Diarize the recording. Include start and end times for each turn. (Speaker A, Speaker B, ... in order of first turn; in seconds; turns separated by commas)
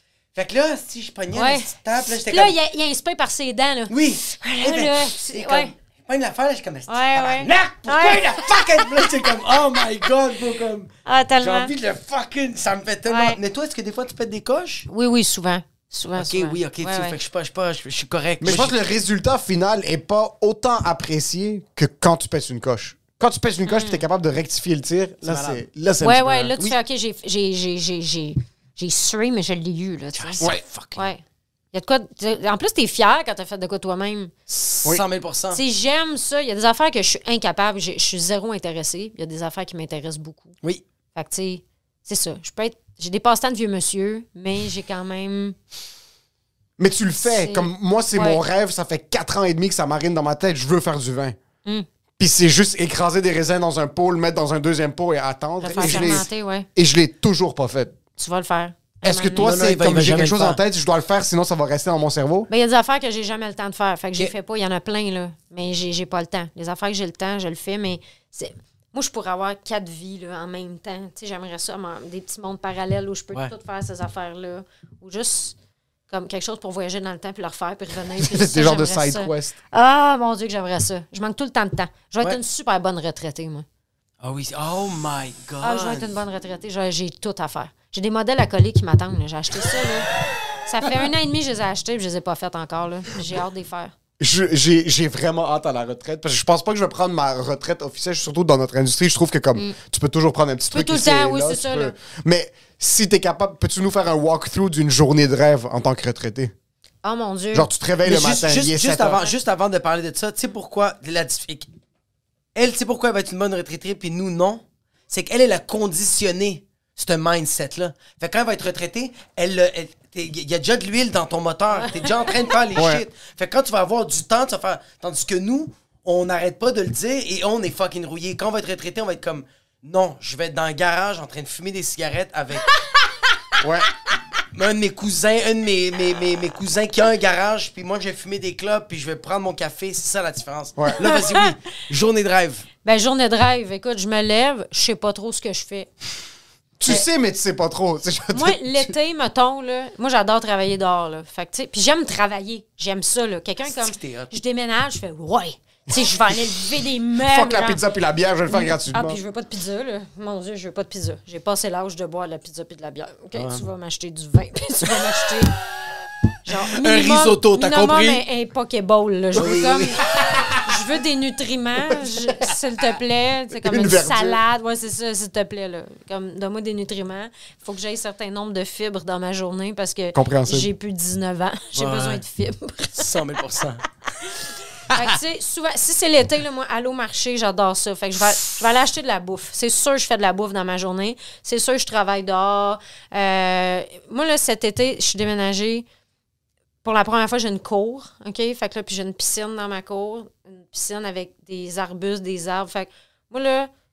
Speaker A: 0.3-2.6, Speaker B: 1.3-5.7, Speaker A: 3.9-14.9, Speaker B: 6.9-9.1, Speaker B: 11.1-11.7, Speaker B: 13.1-13.4, Speaker B: 14.9-17.2, Speaker A: 16.2-18.8, Speaker C: 18.4-26.8, Speaker B: 23.7-24.0, Speaker A: 25.2-25.6, Speaker B: 26.0-34.3, Speaker A: 30.1-31.1, Speaker A: 34.5-35.6, Speaker B: 35.5-40.6, Speaker B: 41.1-45.6, Speaker C: 46.8-51.4, Speaker B: 47.2-48.4, Speaker C: 52.2-58.0, Speaker B: 55.6-56.7, Speaker A: 55.7-56.3, Speaker B: 58.2-59.5, Speaker C: 59.0-62.5, Speaker A: 59.4-60.6, Speaker B: 62.5-75.6, Speaker B: 76.1-83.7, Speaker C: 78.2-79.6, Speaker A: 84.2-86.2, Speaker B: 85.6-90.1, Speaker B: 90.6-93.9, Speaker C: 94.2-106.5, Speaker B: 100.7-101.9, Speaker B: 107.0-107.7, Speaker C: 107.5-109.2, Speaker A: 108.0-111.7, Speaker A: 112.5-132.8, Speaker B: 121.7-122.0, Speaker C: 122.8-123.0, Speaker C: 133.6-133.9, Speaker A: 134.5-142.7, Speaker B: 141.0-141.5, Speaker B: 142.8-145.9, Speaker C: 146.8-148.9, Speaker B: 148.3-157.8, Speaker A: 153.7-154.4, Speaker C: 157.2-159.2, Speaker B: 158.5-165.6, Speaker A: 163.3-163.6, Speaker B: 166.4-170.0, Speaker A: 166.7-168.2, Speaker A: 169.3-170.0, Speaker C: 170.1-170.7, Speaker B: 170.6-183.1, Speaker C: 171.9-172.5, Speaker C: 173.5-174.4, Speaker C: 180.2-180.7, Speaker A: 181.8-182.2, Speaker A: 182.9-183.9, Speaker B: 184.9-195.9, Speaker B: 196.8-203.7